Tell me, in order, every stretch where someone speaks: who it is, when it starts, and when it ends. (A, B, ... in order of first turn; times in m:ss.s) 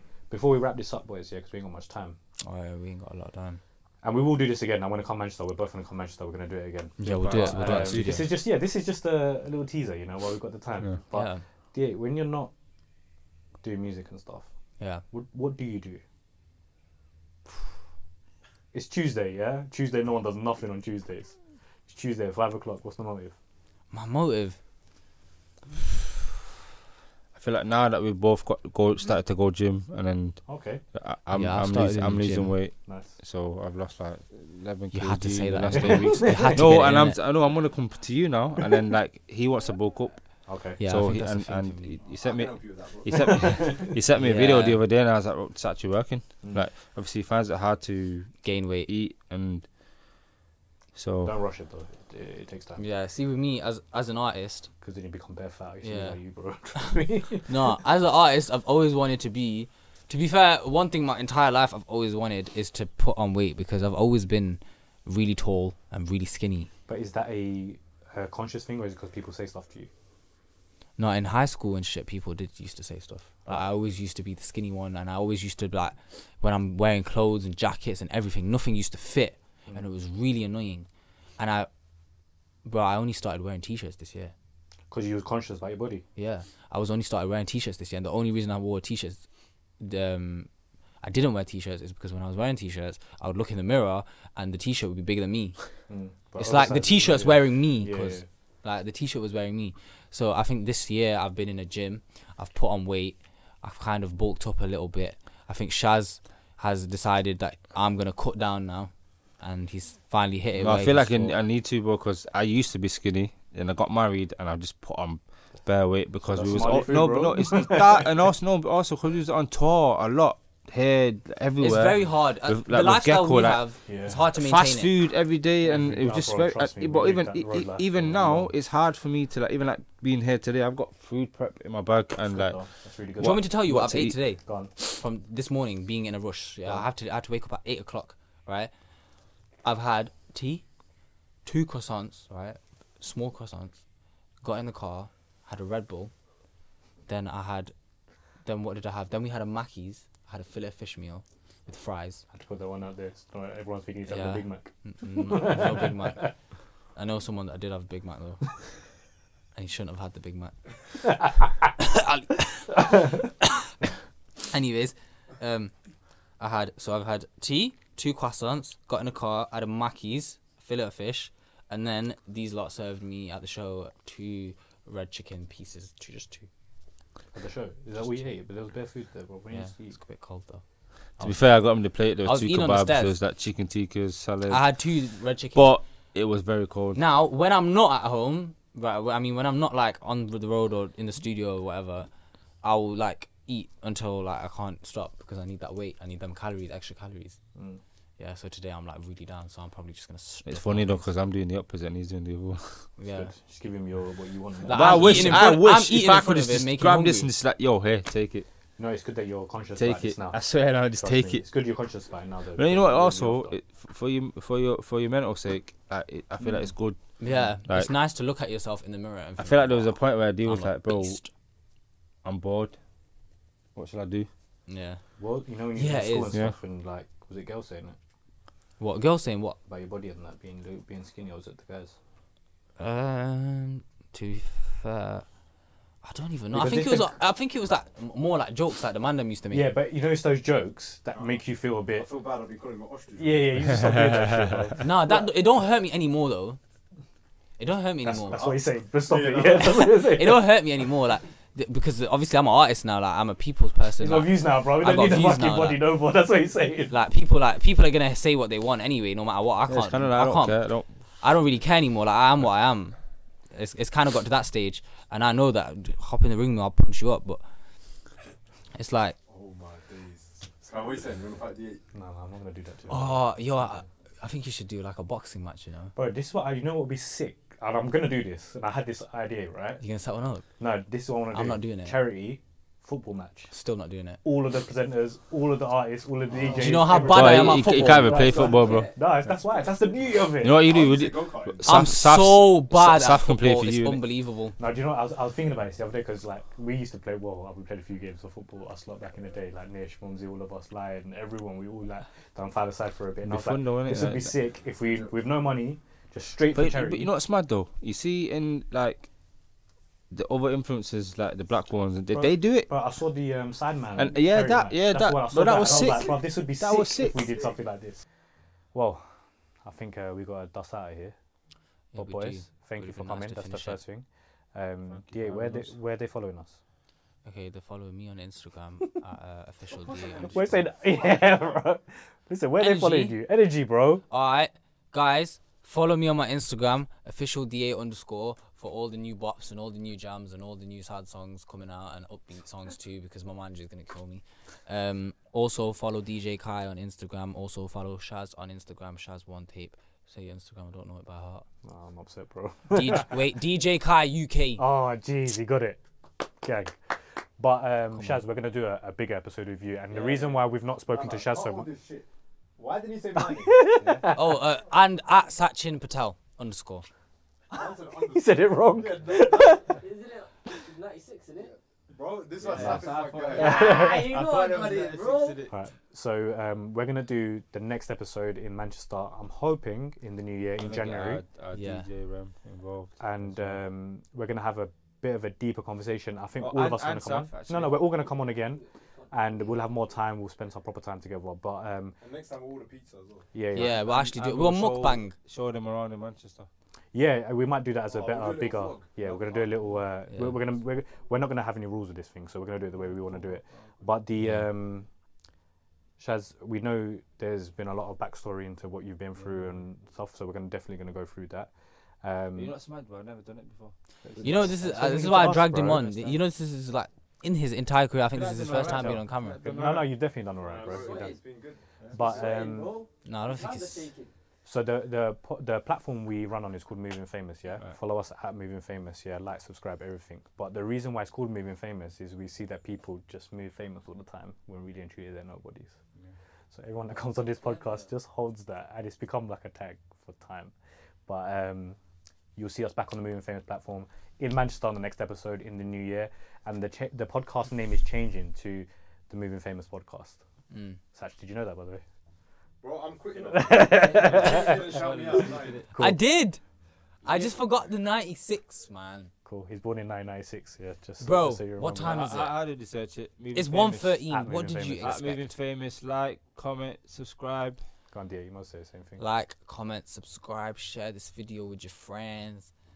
0:00.3-0:02.2 A
0:02.4-0:03.6 B
0:04.0-0:12.5 A
0:07.0-0:08.3 B
0:07.0-0:08.3 C
0:11.1-0:11.4 B
0:13.6-0:14.5 A
0:14.8-0:15.0 B
0:15.1-0:16.0 A
0:18.7-0:21.4 A
0:21.9-0:23.4 A
0:23.9-0:24.6 B
0:27.3-0:49.7 C
0:30.5-0:30.8 A
0:31.3-0:32.6 B
0:32.9-0:33.2 A
0:34.9-0:37.2 B
0:35.7-0:36.6 A
0:40.5-0:40.8 A
0:40.8-0:42.0 B
0:42.0-0:43.8 D
0:43.3-0:43.9 A
0:44.2-0:44.8 B
0:48.4-0:48.9 B
0:51.0-0:51.3 C
0:51.2-0:52.8 A
0:52.8-0:54.7 B
0:54.8-0:57.7 A
0:55.8-0:56.2 B
0:57.5-1:06.7 B
1:06.9-1:09.9 A
1:11.0-1:20.9 B
1:21.4-1:21.7 B
1:22.6-1:24.3 B
1:24.9-1:26.0 A
1:26.2-1:29.2 B
1:29.8-1:30.5 B
1:31.0-1:35.8 B
1:35.9-1:38.3 A
1:36.4-1:51.3 B
1:50.6-2:03.6 C
1:56.3-1:58.1 A
2:01.6-2:04.9 B
2:03.9-2:04.2 A
2:04.3-2:12.6 C
2:05.6-2:08.5 A
2:12.3-2:13.4 A
2:13.2-2:14.2 C
2:13.2-2:18.7 B
2:14.5-2:14.7 A
2:19.6-2:20.6 B
2:21.4-2:23.8 B
2:24.4-2:26.1 B
2:27.1-2:27.7 B
2:28.4-2:32.2 B
2:32.3-2:36.3 A
2:34.1-2:36.3 B
2:37.0-2:38.7 B
2:39.6-2:43.7 B
2:44.5-2:45.7 B
2:46.4-2:56.5 B
2:57.3-3:00.0 A
2:59.5-3:00.6 B
3:01.2-3:04.6 C
3:02.2-3:03.2 B
3:04.5-3:05.8 B
3:05.6-3:07.0 C
3:07.0-3:12.1 B
3:12.6-3:17.4 B
3:17.6-3:17.8 A
3:18.2-3:21.1 B
3:20.5-3:22.9 C
3:23.0-3:23.3 B
3:23.1-3:25.4 A
3:24.7-3:27.3 B
3:24.7-3:28.5 C
3:28.8-3:33.6 A
3:29.8-3:31.5 C
3:32.6-3:37.9 C
3:37.2-3:41.3 B
3:39.4-3:41.2 C
3:42.2-3:42.8 C
3:43.8-3:44.3 C
3:44.7-3:45.0 B
3:45.2-3:48.0 A
3:45.8-3:46.4 B
3:48.8-3:49.6 B
3:49.7-3:52.0 A
3:52.8-3:55.3 B
3:56.0-3:59.7 B
3:56.5-3:57.1 A
3:59.5-4:02.1 A
4:01.1-4:03.6 D
4:03.2-4:05.3 A
4:04.1-4:04.6 C
4:04.8-4:06.6 B
4:07.6-4:08.4 B
4:08.0-4:10.5 A
4:08.2-4:09.8 D
4:09.7-4:15.8 B
4:14.0-4:17.0 A
4:16.9-4:20.6 B
4:19.7-4:20.9 C
4:21.2-4:23.0 B
4:23.5-4:27.4 B
4:28.8-4:29.2 B
4:29.3-4:31.8 D
4:31.9-4:33.8 A
4:32.9-4:35.9 B
4:36.0-4:39.8 A
4:39.8-4:40.5 B
4:40.6-4:43.5 A
4:41.3-4:42.0 B
4:43.5-4:44.2 B
4:44.2-4:50.7 A
4:46.3-4:47.4 D
4:46.6-4:48.4 B
4:46.9-4:48.9 C
4:48.1-4:49.0 E
4:50.4-4:54.0 C
4:50.5-4:51.8 D
4:51.6-4:54.6 B
4:54.6-5:07.1 A
5:03.2-5:04.3 C
5:06.5-5:09.1 C
5:10.1-5:12.7 C
5:12.1-5:18.0 A
5:14.0-5:17.3 C
5:18.7-5:21.2 A
5:21.9-5:23.8 B
5:22.0-5:26.6 A
5:24.9-5:25.7 C
5:27.2-5:30.6 B
5:29.8-5:30.3 D
5:30.2-5:34.0 A
5:30.9-5:31.4 D
5:32.6-5:33.2 B
5:34.1-5:51.5 B
5:51.6-5:53.2 A
5:52.7-5:54.6 B
5:54.6-5:56.8 A
5:57.4-6:01.7 A
5:59.9-6:03.6 D
6:03.2-6:04.4 A
6:03.8-6:04.0 C
6:04.1-6:06.9 B
6:07.5-6:09.5 D
6:07.5-6:09.8 A
6:09.1-6:11.6 E
6:11.4-6:15.5 D
6:12.4-6:15.5 C
6:12.5-6:15.5 E
6:12.6-6:14.0 A
6:15.5-6:21.2 A
6:20.6-6:23.6 C
6:21.5-6:21.9 B
6:23.0-6:32.0 A
6:26.4-6:27.9 C
6:28.3-6:29.8 E
6:32.0-6:33.3 D
6:33.3-6:33.8 A
6:33.6-6:35.1 B
6:33.6-6:36.5 C
6:36.9-6:44.9 A
6:37.9-6:39.8 D
6:42.9-6:43.7 C
6:44.2-6:44.4 B
6:46.0-6:52.5 A
6:52.4-6:54.6 C
6:54.0-6:56.1 A
6:54.2-6:59.4 B
6:55.7-6:56.1 C
6:58.1-7:00.0 C
6:58.6-7:01.2 A
7:00.4-7:02.4 D
7:00.6-7:01.2 E
7:01.9-7:02.8 A
7:02.0-7:04.1 E
7:03.0-7:03.9 B
7:04.4-7:15.8 A
7:16.5-7:20.5 A
7:17.4-7:17.8 E
7:21.1-7:21.8 A
7:22.4-7:30.2 A
7:30.5-7:30.8 B
7:30.9-7:31.8 A
7:32.6-7:35.7 D
7:33.3-7:34.8 A
7:33.8-7:35.6 E
7:35.7-7:36.0 A
7:35.8-7:36.4 B
7:37.0-7:39.1 B
7:37.1-7:37.3 D
7:39.3-7:42.3 A
7:41.0-7:42.4 B
7:41.8-7:44.0 C
7:43.3-7:45.3 B
7:44.1-7:45.0 A
7:44.8-7:47.6 C
7:47.9-7:49.0 A
7:49.0-7:52.5 B